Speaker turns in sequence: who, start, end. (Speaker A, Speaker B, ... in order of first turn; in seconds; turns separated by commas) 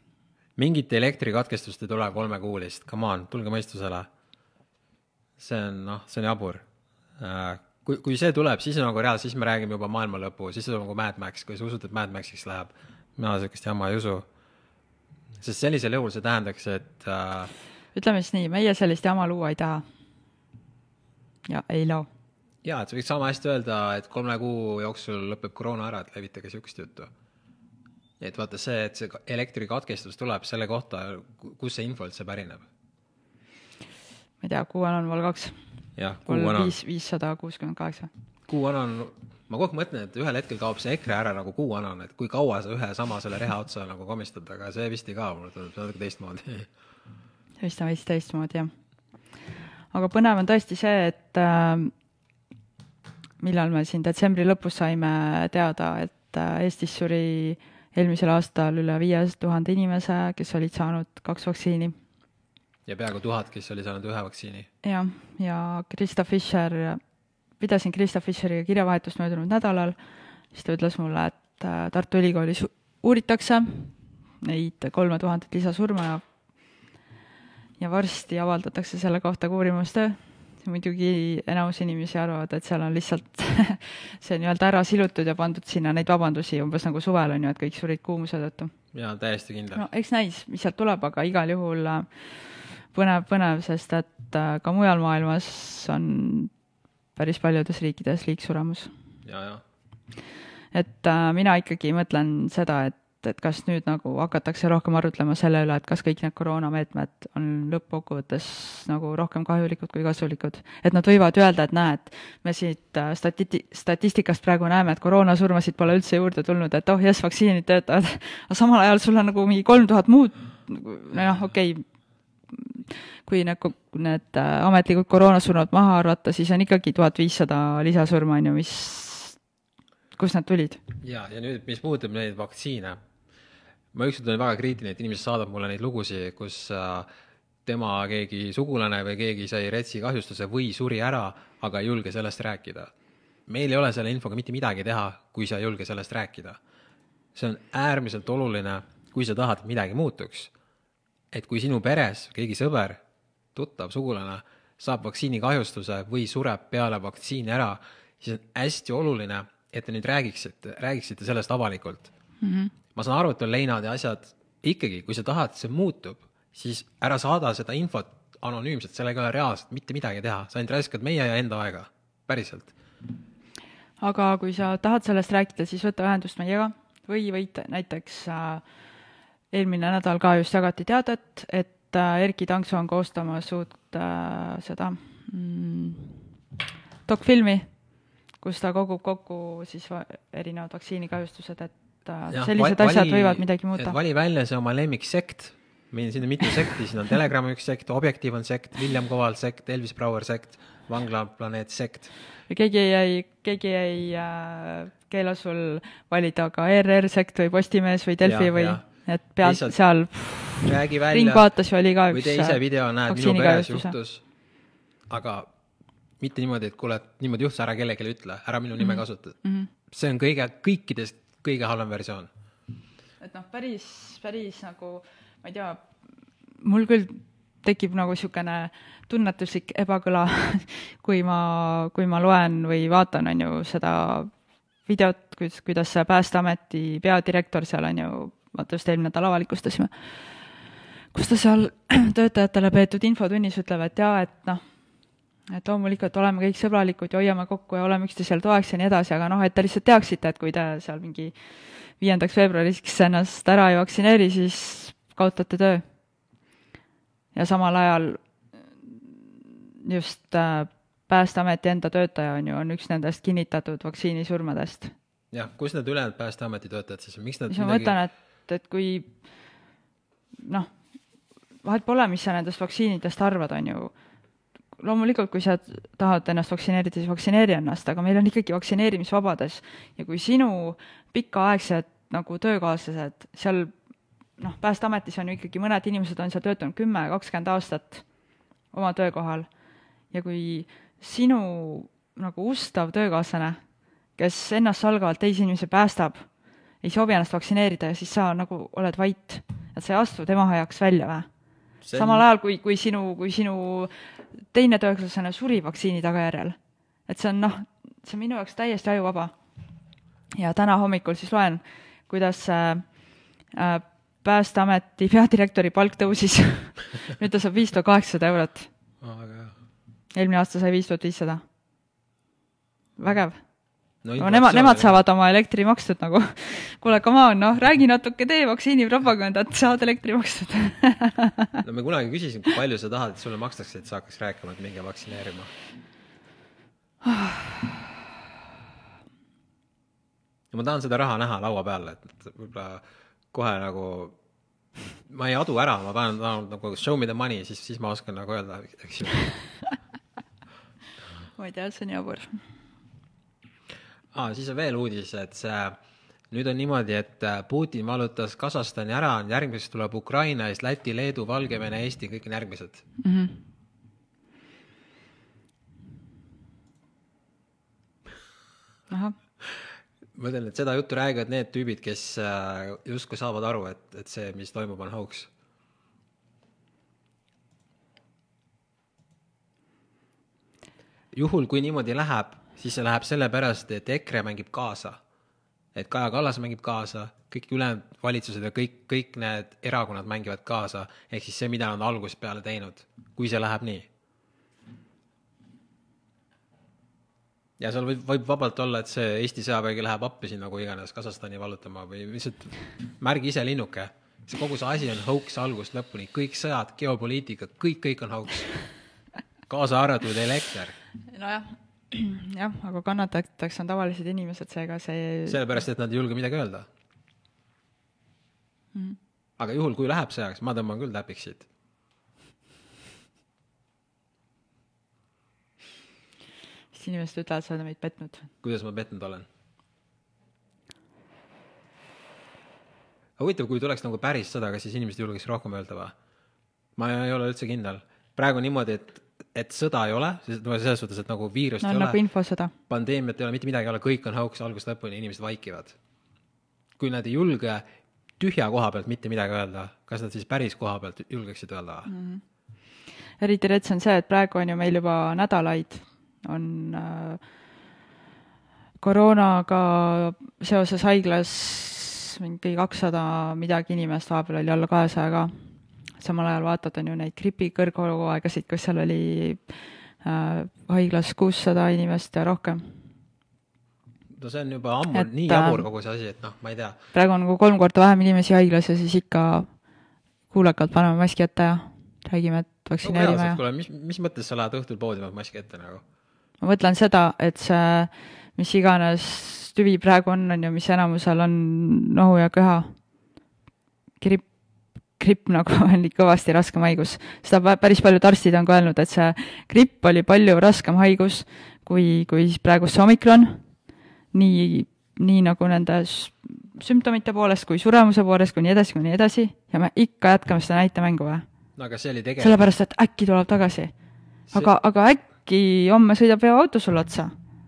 Speaker A: 0.6-4.1, Speaker A: 5.4-6.7, Speaker A: 7.2-14.3, Speaker A: 15.4-17.5, Speaker B: 17.9-19.8, Speaker B: 21.5-22.1, Speaker A: 22.6-27.1, Speaker A: 28.2-32.7, Speaker B: 34.4-35.5, Speaker A: 36.0-36.8, Speaker B: 36.3-38.1, Speaker A: 38.5-46.7, Speaker B: 47.6-48.7, Speaker B: 49.9-51.9, Speaker B: 53.4-62.0, Speaker A: 62.9-64.7, Speaker B: 64.8-67.0, Speaker B: 67.6-70.0, Speaker B: 70.5-76.2, Speaker B: 77.8-88.7, Speaker A: 88.9-89.8, Speaker B: 89.7-92.1, Speaker B: 92.9-96.5, Speaker B: 97.2-98.9, Speaker A: 99.2-99.6, Speaker B: 100.7-121.8, Speaker B: 122.5-129.4, Speaker B: 130.2-130.8, Speaker A: 131.0-133.0, Speaker A: 133.9-137.1, Speaker A: 137.7-142.9, Speaker A: 143.5-146.6, Speaker A: 147.3-150.5, Speaker A: 151.3-153.0, Speaker A: 153.6-162.1, Speaker B: 162.4-162.7, Speaker A: 162.9-172.7, Speaker B: 174.0-178.6, Speaker B: 179.5-186.3, Speaker B: 187.1-187.7, Speaker B: 188.4-194.0, Speaker A: 192.3-202.1, Speaker B: 202.5-213.9, Speaker A: 208.2-208.9, Speaker A: 209.4-209.8, Speaker A: 210.6-211.5, Speaker A: 212.1-214.2, Speaker A: 215.1-215.5, Speaker A: 216.2-219.4, Speaker B: 218.8-219.7, Speaker A: 219.9-222.3, Speaker B: 223.2-225.9, Speaker B: 226.6-234.3, Speaker B: 234.9-239.9, Speaker B: 241.1-244.6, Speaker B: 245.5-251.3, Speaker B: 252.0-255.8, Speaker B: 257.4-258.2, Speaker B: 258.9-259.1, Speaker B: 259.8-264.9, Speaker A: 265.3-268.0, Speaker B: 267.5-269.1, Speaker B: 270.4-270.7, Speaker B: 271.6-273.9, Speaker B: 274.8-283.7, Speaker B: 284.4-288.0, Speaker B: 288.7-289.5, Speaker B: 290.1-293.6, Speaker B: 294.2-296.2, Speaker B: 296.8-301.3, Speaker A: 301.8-302.2, Speaker B: 301.9-303.9, Speaker B: 304.5-309.4, Speaker B: 310.4-312.9, Speaker B: 313.5-318.7, Speaker A: 319.0-319.6, Speaker B: 320.1-321.4, Speaker B: 323.0-323.4, Speaker A: 324.0-325.0, Speaker B: 324.2-331.6, Speaker A: 331.6-335.5, Speaker B: 337.0-337.9, Speaker A: 340.5-344.2, Speaker A: 345.1-349.3, Speaker B: 351.4-352.4, Speaker A: 354.1-355.8, Speaker A: 356.3-362.8, Speaker B: 363.0-363.4, Speaker B: 368.9-369.1, Speaker A: 369.4-375.3, Speaker A: 381.1-385.0, Speaker A: 385.8-393.9, Speaker A: 397.6-408.5, Speaker A: 409.5-410.8, Speaker B: 411.1-415.4, Speaker A: 415.3-416.7, Speaker A: 419.4-421.5, Speaker B: 426.7-428.3, Speaker A: 428.4-429.3, Speaker A: 433.2-435.9, Speaker A: 436.8-442.0, Speaker B: 441.6-442.5, Speaker A: 442.7-445.8, Speaker A: 446.8-447.6, Speaker A: 448.2-451.9, Speaker B: 451.9-452.2, Speaker B: 453.2-457.2, Speaker B: 458.8-465.3, Speaker B: 466.0-469.5, Speaker B: 470.0-472.7, Speaker A: 474.1-476.8, Speaker B: 474.9-475.7, Speaker B: 476.9-479.5, Speaker B: 480.3-483.4, Speaker A: 482.8-485.8, Speaker B: 486.4-492.7, Speaker B: 494.0-494.3, Speaker B: 495.0-503.4, Speaker B: 504.1-511.2, Speaker A: 511.6-512.4, Speaker B: 512.2-513.7, Speaker B: 514.3-517.1